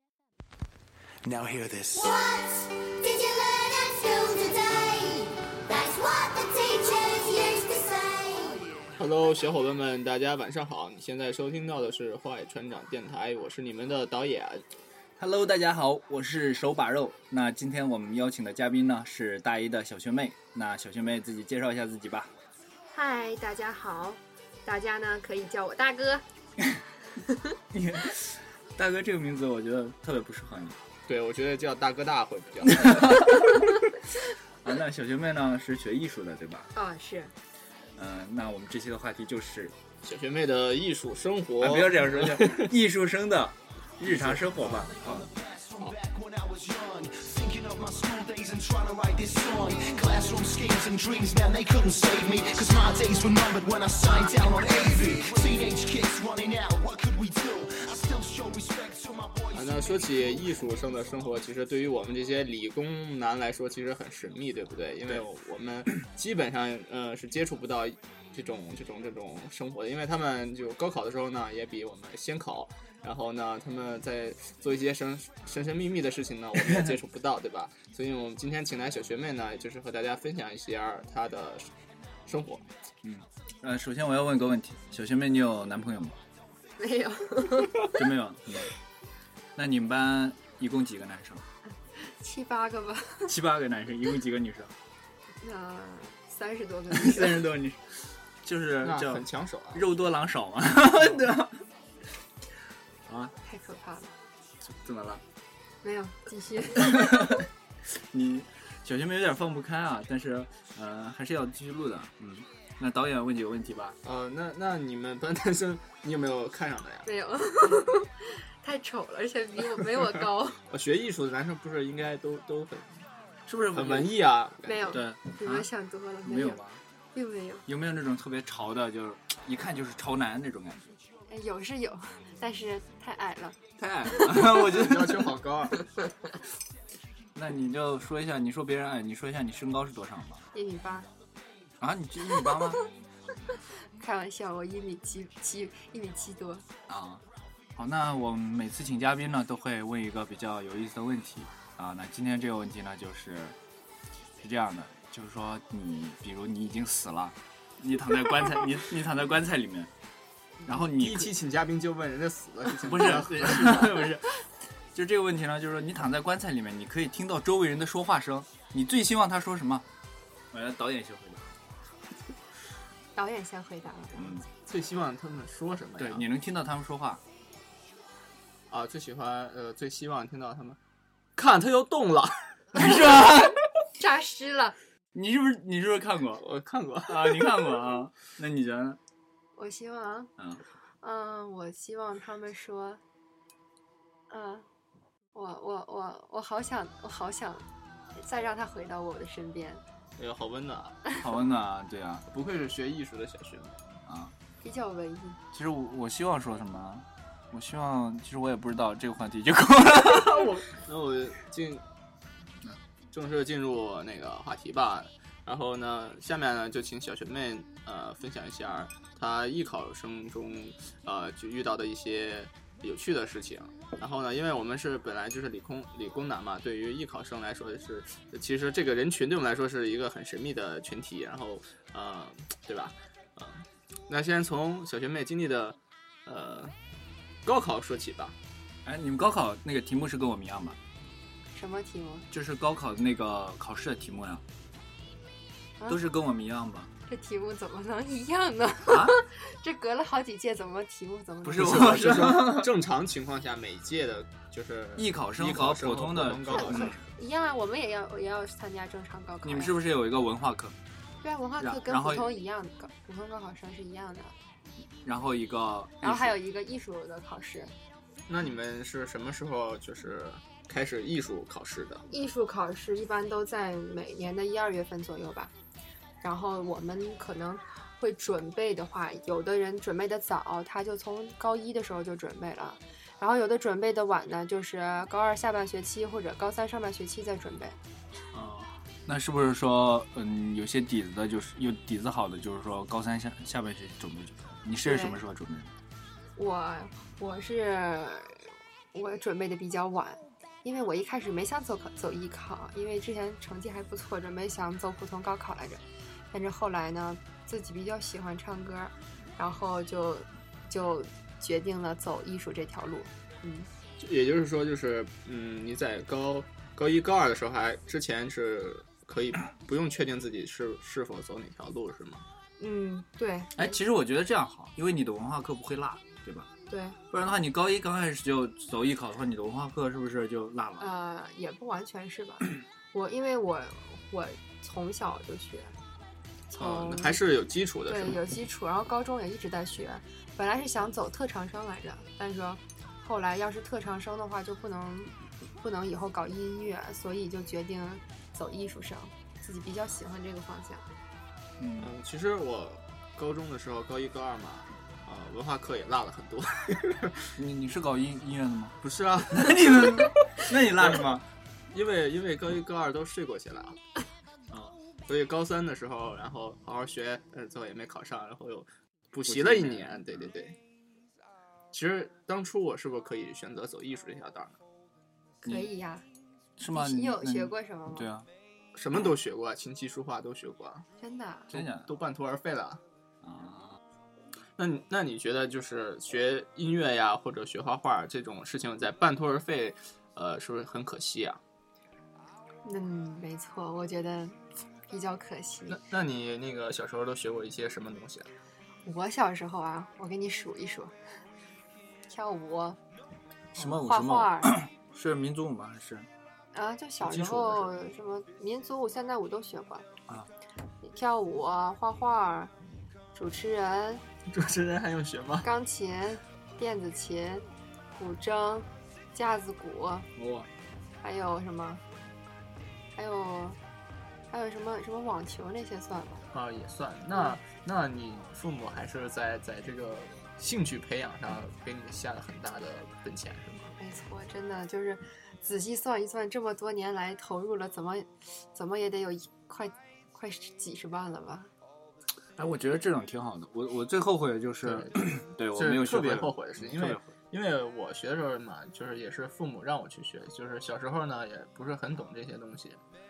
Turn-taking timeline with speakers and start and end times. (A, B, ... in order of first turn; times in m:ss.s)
0:01.2-0:02.1 A
0:01.9-0:08.9 B
0:09.0-0:14.6 C
0:15.2-0:22.3 D
0:22.9-0:26.2 E
0:27.2-0:27.5 E
0:27.7-0:30.8 D
0:31.1-0:33.4 C
0:32.6-0:33.7 D
0:34.6-0:36.7 D
0:36.7-0:37.3 E
0:38.0-0:39.8 D
0:40.0-0:42.8 C
0:41.6-0:45.3 D
0:44.0-0:44.8 C
0:44.6-1:00.7 A
0:59.5-1:21.7 C
1:22.2-1:22.6 C
1:23.0-1:26.2 D
1:26.8-1:27.9 E
1:27.9-1:28.7 D
1:29.6-1:31.4 D
1:32.0-1:33.3 E
1:33.3-1:34.7 D
1:35.4-1:37.5 E
1:36.9-1:41.6 D
1:38.8-1:39.9 C
1:43.1-1:43.3 D
1:43.4-1:44.1 E
1:44.6-1:45.2 D
1:45.8-1:47.2 E
1:46.8-1:54.0 D
1:54.0-1:57.1 C
1:57.0-2:00.6 E
2:00.7-2:03.0 C
2:03.5-2:04.1 D
2:03.7-2:05.0 C
2:04.7-2:06.6 E
2:04.9-2:05.7 D
2:06.2-2:06.8 D
2:07.1-2:07.7 E
2:07.7-2:11.0 D
2:11.3-2:13.6 E
2:13.8-2:15.3 D
2:14.2-2:15.8 C
2:17.3-2:20.4 D
2:20.5-2:21.1 E
2:21.8-2:22.8 D
2:24.0-2:26.7 E
2:26.9-2:27.2 D
2:27.8-2:33.6 D
2:34.4-2:39.9 D
2:40.7-2:41.3 D
2:40.8-2:44.1 C
2:42.8-2:44.4 D
2:44.9-2:49.8 D
2:50.5-2:51.5 D
2:53.2-2:54.4 E
2:54.2-2:54.4 D
2:54.7-2:56.2 C
2:56.0-2:57.2 D
2:58.7-3:00.8 C
3:01.4-3:03.0 C
3:02.7-3:03.6 D
3:04.0-3:04.8 E
3:05.1-3:06.4 D
3:06.4-3:07.8 C
3:07.1-3:09.0 D
3:09.6-3:10.3 E
3:10.4-3:10.6 D
3:11.0-3:13.0 E
3:14.3-3:14.7 E
3:15.3-3:17.6 E
3:18.2-3:19.8 E
3:20.2-3:21.0 C
3:21.2-3:22.2 D
3:22.3-3:24.0 C
3:24.1-3:24.3 D
3:24.6-3:25.4 E
3:25.5-3:30.6 D
3:30.1-3:31.8 C
3:33.1-3:56.8 C
3:57.4-3:58.4 C
3:58.8-4:00.8 D
4:01.5-4:02.2 E
4:02.3-4:04.4 D
4:05.9-4:06.9 D
4:07.1-4:12.0 E
4:08.9-4:09.2 D
4:11.4-4:12.7 D
4:11.5-4:17.0 C
4:15.0-4:17.0 D
4:16.5-4:19.8 E
4:19.4-4:20.8 D
4:21.2-4:24.3 E
4:21.6-4:22.3 D
4:25.0-4:26.4 D
4:26.0-4:27.7 E
4:28.3-4:32.1 C
4:32.1-4:35.5 E
4:36.2-4:47.8 E
4:48.3-4:55.7 D
4:54.8-4:55.2 E
4:56.4-5:13.7 E
5:14.0-5:22.2 C
5:22.6-5:23.8 E
5:23.6-5:26.5 D
5:26.7-5:27.0 E
5:27.1-5:30.9 D
5:30.8-5:35.8 E
5:36.5-5:37.2 E
5:36.6-5:38.2 C
5:37.9-5:50.8 E
5:51.6-5:51.9 D
5:51.8-5:57.3 C
5:57.4-6:01.2 D
5:58.8-6:01.2 C
6:01.7-6:03.8 C
6:04.5-6:04.8 D
6:05.1-6:10.6 C
6:09.2-6:10.3 D
6:11.7-6:14.6 C
6:15.4-6:16.0 E
6:16.6-6:18.3 D
6:16.7-6:18.1 E
6:18.8-6:20.9 C
6:21.0-6:21.5 E
6:21.5-6:21.9 D
6:21.5-6:22.8 C
6:23.2-6:23.8 D
6:24.6-6:31.4 C
6:32.6-6:34.4 E
6:34.9-6:35.8 E
6:35.7-6:38.3 C
6:38.8-6:40.9 E
6:42.1-6:42.8 E
6:43.6-6:46.1 D
6:43.6-6:44.6 E
6:46.5-6:49.9 E
6:47.0-6:47.7 C
6:50.8-6:52.5 E
6:53.1-6:54.0 E
6:54.3-6:55.5 C
6:55.4-7:00.1 E
7:00.2-7:00.5 D
7:01.0-7:01.8 E
7:03.0-7:03.6 E
7:04.3-7:06.2 E
7:06.3-7:13.7 C
7:13.8-7:21.5 E
7:22.4-7:27.0 D
7:24.6-7:32.8 C